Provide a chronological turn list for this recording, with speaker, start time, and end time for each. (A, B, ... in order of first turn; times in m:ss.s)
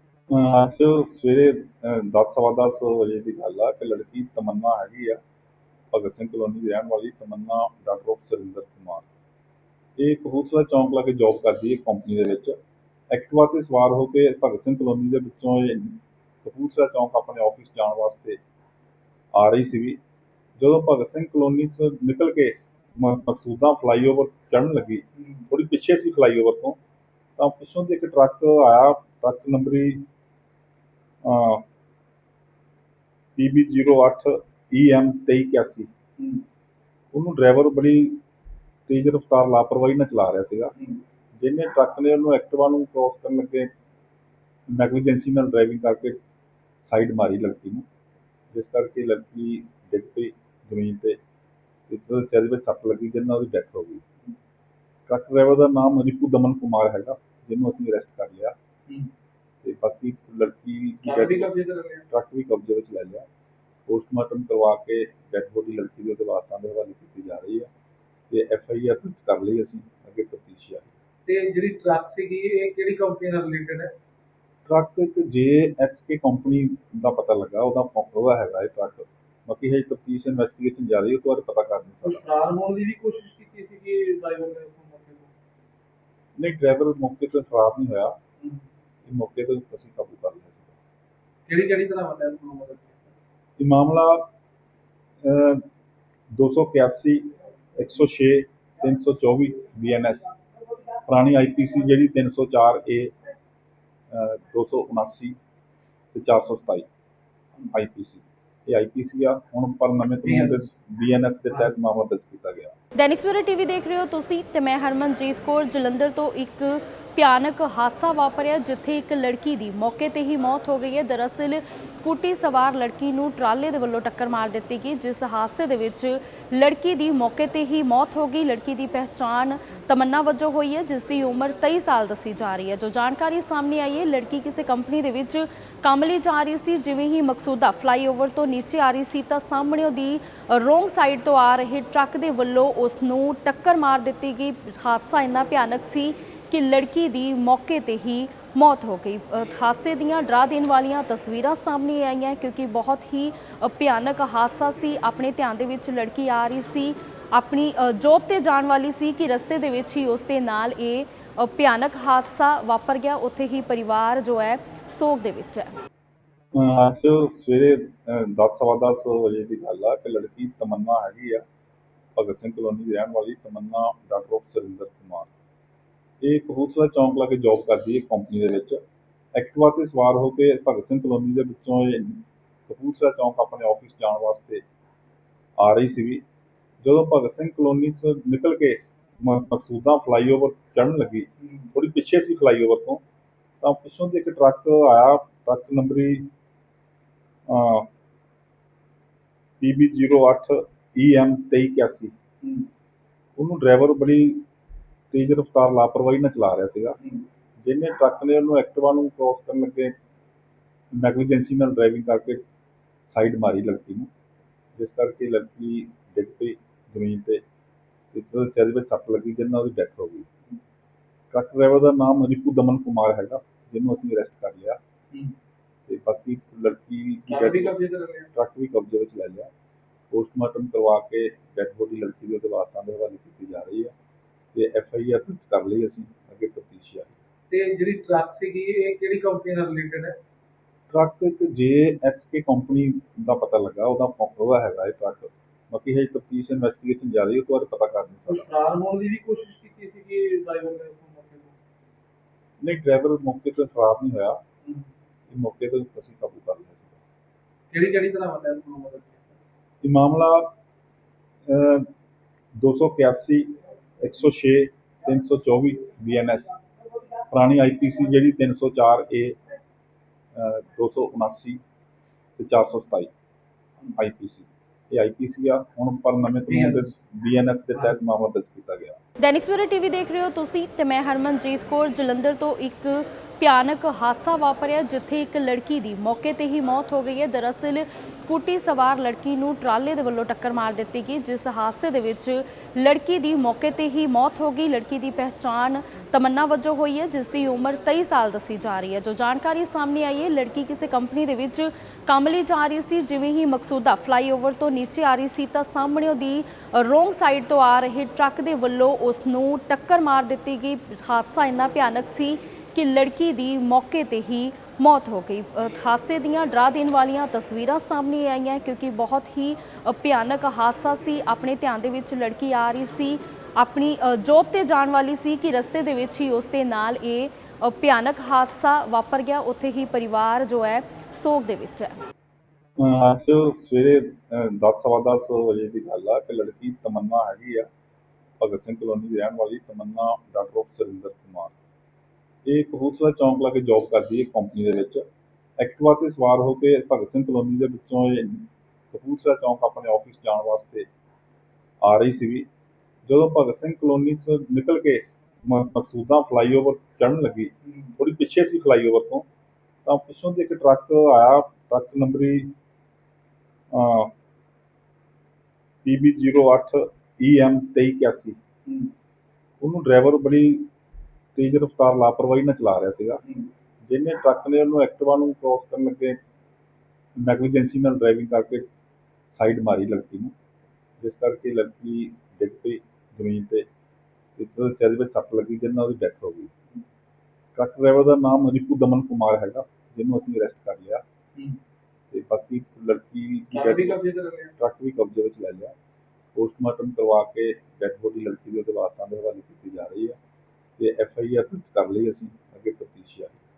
0:00.3-0:05.2 A
0:05.9-0:09.1 A
0:10.0-0:12.6 A
0:13.1-0:18.4 A
0:19.4-0:20.0 A
0:20.6-0:26.8 A
0:27.4-0:30.1 A
0:31.2-0:31.6 A
0:33.4-0:35.9 A
0:36.2-0:36.4 B
0:37.1-0:38.2 A
0:38.9-0:40.7 A
0:41.4-0:43.7 A
0:44.7-0:46.2 A
0:46.8-0:47.8 A
0:48.5-0:51.2 A
0:51.9-0:54.0 A
0:55.1-0:58.6 A
0:59.6-1:01.5 A
1:01.0-1:02.1 B
1:02.1-1:03.3 A
1:03.9-1:07.7 A
1:08.3-1:10.9 A
1:11.3-1:13.9 B
1:14.7-1:22.2 A
1:22.0-1:25.3 B
1:26.4-1:28.2 A
1:29.1-1:30.7 A
1:31.5-1:33.1 B
1:33.6-1:34.3 A
1:35.2-1:35.6 A
1:36.3-1:40.4 A
1:41.1-1:43.1 A
1:44.1-1:45.4 A
1:46.1-1:46.9 A
1:47.7-1:52.7 A
1:50.2-1:50.7 B
1:53.0-2:45.7 C
2:46.5-2:51.4 A
2:52.2-2:55.3 A
2:56.2-2:58.8 A
2:59.3-3:04.6 A
3:05.6-3:06.2 A
3:06.8-3:13.0 A
3:13.6-3:16.3 A
3:17.5-3:17.9 A
3:19.6-3:22.2 A
3:22.4-3:22.7 B
3:23.4-3:24.5 A
3:25.1-3:27.0 A
3:27.6-3:29.9 A
3:30.9-3:32.4 A
3:33.1-3:34.1 A
3:34.8-3:37.4 A
3:38.1-3:40.3 A
3:41.3-3:44.8 A
3:45.9-3:47.8 A
3:47.3-3:48.3 B
3:48.4-3:49.5 A
3:50.1-3:53.9 A
3:54.5-3:57.2 A
3:57.5-4:00.2 B
4:00.9-4:08.5 A
4:08.3-4:11.6 B
4:12.6-4:14.4 A
4:14.6-4:14.9 B
4:15.3-4:17.0 A
4:17.7-4:19.4 B
4:19.8-4:20.5 A
4:21.5-4:21.9 A
4:22.6-4:26.6 A
4:27.3-4:29.4 A
4:30.3-4:31.6 A
4:32.4-4:33.1 A
4:34.0-4:39.0 A
4:36.5-4:37.0 B
4:39.2-5:32.0 C
5:32.8-5:37.7 A
5:38.4-5:41.5 A
5:42.4-5:45.0 A
5:45.6-5:50.9 A
5:51.8-5:52.5 A
5:53.1-5:59.3 A
5:57.7-5:57.9 B
5:59.8-6:02.5 A
6:03.7-6:04.1 A
6:05.8-6:08.4 A
6:08.7-6:08.9 B
6:09.6-6:10.7 A
6:11.4-6:13.2 A
6:13.8-6:16.2 A
6:17.2-6:18.7 A
6:19.3-6:20.3 A
6:21.0-6:23.7 A
6:24.4-6:26.5 A
6:27.6-6:31.0 A
6:32.1-6:34.0 A
6:33.5-6:34.6 B
6:34.6-6:35.7 A
6:36.4-6:40.2 A
6:40.8-6:43.4 A